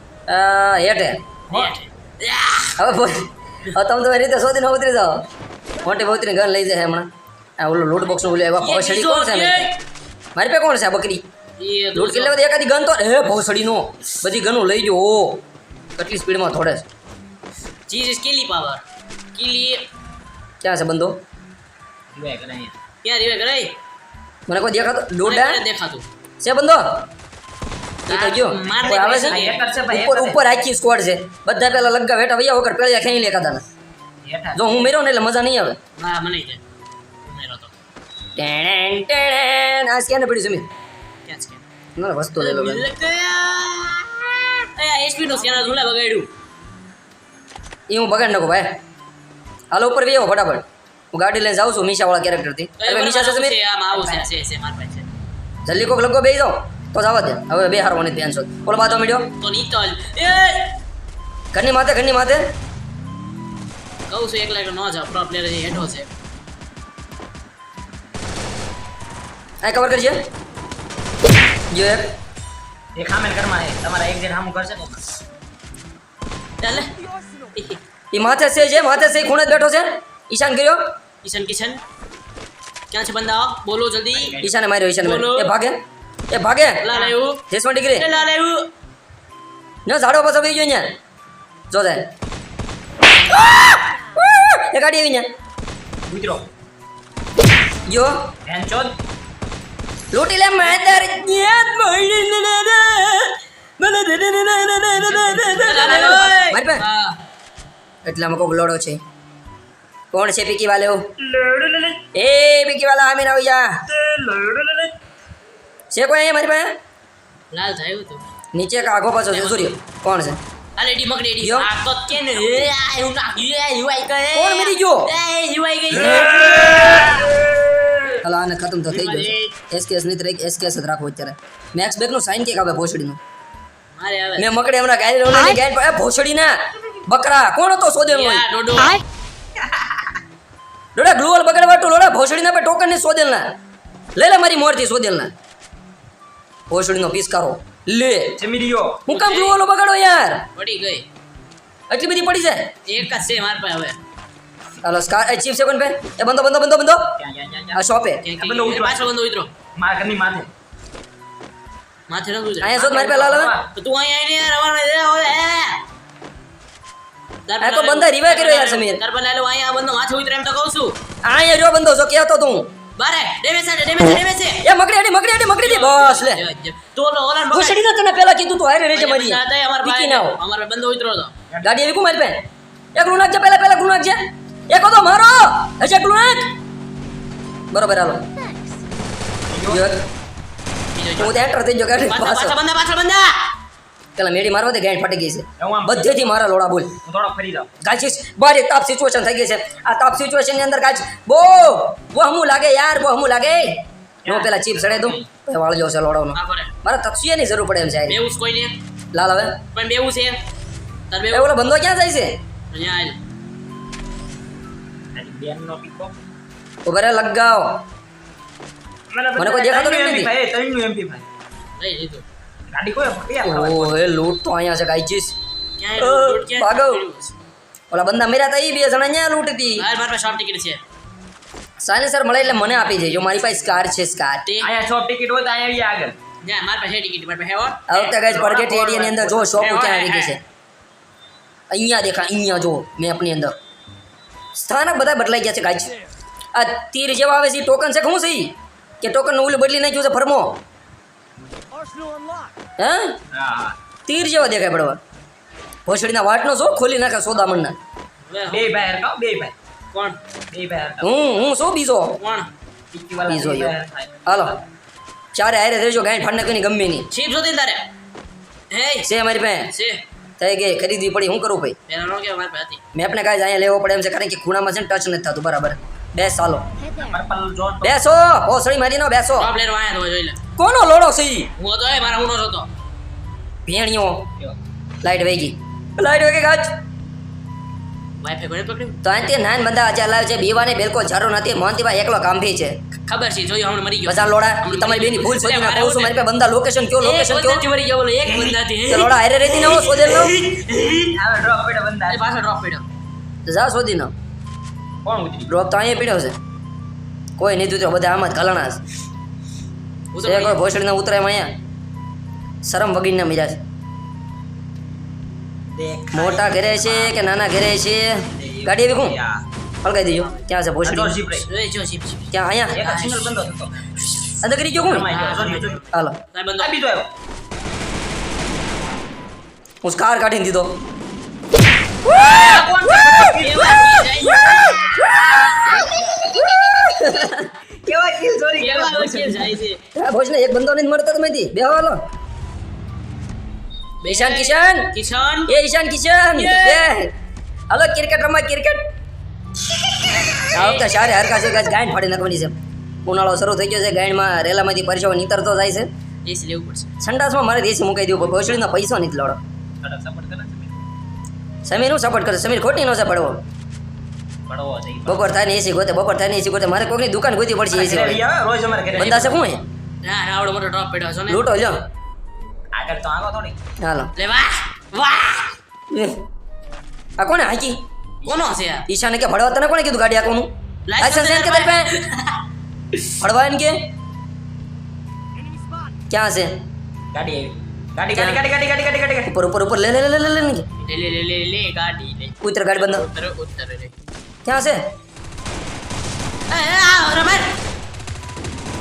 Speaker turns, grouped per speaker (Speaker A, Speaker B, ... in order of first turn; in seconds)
Speaker A: 0.3-1.2, 2.8-5.2, 5.8-9.7, 10.3-11.2, 11.9-15.4, 16.0-16.8, 20.6-21.2, 24.5-25.6, 26.4-27.0, 28.1-33.6, 34.5-35.8, 38.4-40.7, 42.0-42.9, 47.9-48.8, 49.7-53.5, 55.6-59.3, 61.5-62.5, 69.6-70.2, 71.7-72.2, 78.1-80.9, 84.4-86.8, 87.5-88.0, 89.8-90.9, 91.7-92.1, 93.3-95.3, 97.9-98.3, 100.1-106.8, 108.0-109.0, 110.1-111.0, 112.1-113.8, 115.9-116.8, 118.5-120.4, 121.4-121.7, 124.3-125.1, 126.0-127.0, 128.2-133.2, 134.4-138.4, 140.9-143.5, 144.2-145.3, 146.7-148.4, 149.1-150.4, 151.9-152.7, 154.8-157.2, 157.7-158.2, 162.6-163.5, 167.6-169.0, 171.2-172.7, 174.6-176.4, 177.5-180.4, 181.6-182.4, 182.9-186.5, 187.7-188.2, 189.7-190.1, 191.2-192.6, 194.2-197.0, 197.8-208.2, 209.1-209.6, 211.3-212.4, 216.8-217.8, 219.4-220.3, 223.4-225.3, 226.0-227.0, 227.9-229.8, 231.8-234.4, 237.9-240.4, 241.7-243.5, 244.6-245.9, 246.5-250.6, 252.8-253.2, 254.1-255.0, 255.9-257.8, 261.0-262.2, 263.3-263.7, 264.2-264.6, 265.3-267.1, 269.0-269.7, 270.4-271.8, 272.9-276.6, 277.8-279.5, 280.6-281.5, 283.6-284.2, 285.0-286.7, 289.0-292.8, 294.1-297.6, 298.9-300.3, 303.4-304.1, 305.5-306.3, 307.4-308.8, 310.2-311.5, 312.6-313.6, 316.1-319.2, 319.8-321.2, 322.3-322.9, 324.4-325.1, 325.9-326.2, 329.8-330.8, 336.4-337.5, 339.9-342.0, 344.1-344.9, 345.5-347.1, 347.7-348.9, 350.5-355.9, 357.0-359.4, 361.6-363.4, 365.1-368.2, 368.9-369.6, 371.3-371.8, 373.8-374.1, 375.9-376.2, 377.2-377.8, 378.9-381.9, 383.0-383.8, 386.1-386.6, 388.1-388.4, 389.3-390.6, 392.4-393.1, 394.4-394.8
Speaker B: 1.5-1.7, 22.1-22.7, 29.2-30.4, 34.2-34.9, 45.4-45.8, 53.9-54.2, 72.9-75.0, 84.1-84.5, 86.9-87.1, 96.1-96.5, 98.5-99.0, 105.0-106.3, 111.3-112.0, 114.1-114.8, 139.6-140.1, 148.4-149.0, 157.2-159.1, 159.8-160.5, 162.8-163.7, 181.5-181.8, 189.5-189.8, 195.6-196.2, 197.0-197.8, 204.2-205.3, 215.1-216.1, 219.1-221.2, 222.7-223.9, 234.6-236.2, 238.2-239.6, 253.3-253.8, 258.5-259.5, 260.5-261.1, 262.9-264.5, 276.9-278.0, 301.1-302.2, 305.0-305.5, 315.7-317.1, 318.3-319.4, 320.8-321.5, 322.7-324.0, 324.8-325.9, 326.6-327.1, 332.1-334.1, 337.8-339.6, 359.8-360.8, 364.4-365.3, 367.7-369.3, 372.7-373.6, 387.1-389.3
Speaker C: 1.5-2.8, 8.6-9.8, 11.6-12.4, 17.9-18.8, 19.3-19.9, 23.0-23.7, 25.2-26.0, 28.1-29.6, 36.0-36.6, 37.2-37.7, 41.2-41.6, 42.4-46.3, 52.8-55.1, 59.4-60.8, 64.1-66.1, 76.6-76.9, 77.5-77.8, 81.2-81.8, 82.9-84.4, 85.0-85.5, 86.8-87.4, 87.9-88.7, 105.6-107.2, 117.5-118.2, 119.3-119.7, 120.8-127.4, 128.9-129.5, 133.9-134.5, 138.1-139.0, 149.1-149.6, 150.6-151.0, 152.8-154.0, 158.2-159.5, 162.1-163.1, 163.7-165.8, 167.5-170.9, 173.0-174.6, 175.6-177.8, 178.9-181.3, 190.9-191.4, 192.0-193.5, 206.3-206.7, 208.1-208.8, 209.7-210.4, 211.1-211.5, 212.7-213.2, 221.8-222.2, 225.8-227.3, 229.8-230.8, 234.4-234.7, 236.4-238.1, 239.5-240.3, 258.3-258.8, 259.9-260.2, 262.2-262.5, 267.1-267.9, 268.7-269.1, 269.7-270.0, 271.9-272.8, 279.4-280.4, 281.6-282.7, 288.2-289.0, 293.1-296.1, 297.0-301.2, 302.1-302.9, 310.1-310.6, 321.4-322.3, 322.8-323.3, 325.1-325.8, 326.3-326.7, 332.1-332.6, 333.3-335.9, 338.6-339.8, 344.0-345.5, 346.3-346.9, 350.4-350.9, 356.2-356.9, 369.0-369.3, 370.0-371.5, 374.1-375.6, 378.2-378.9, 380.9-382.4, 390.8-393.9, 396.5-397.6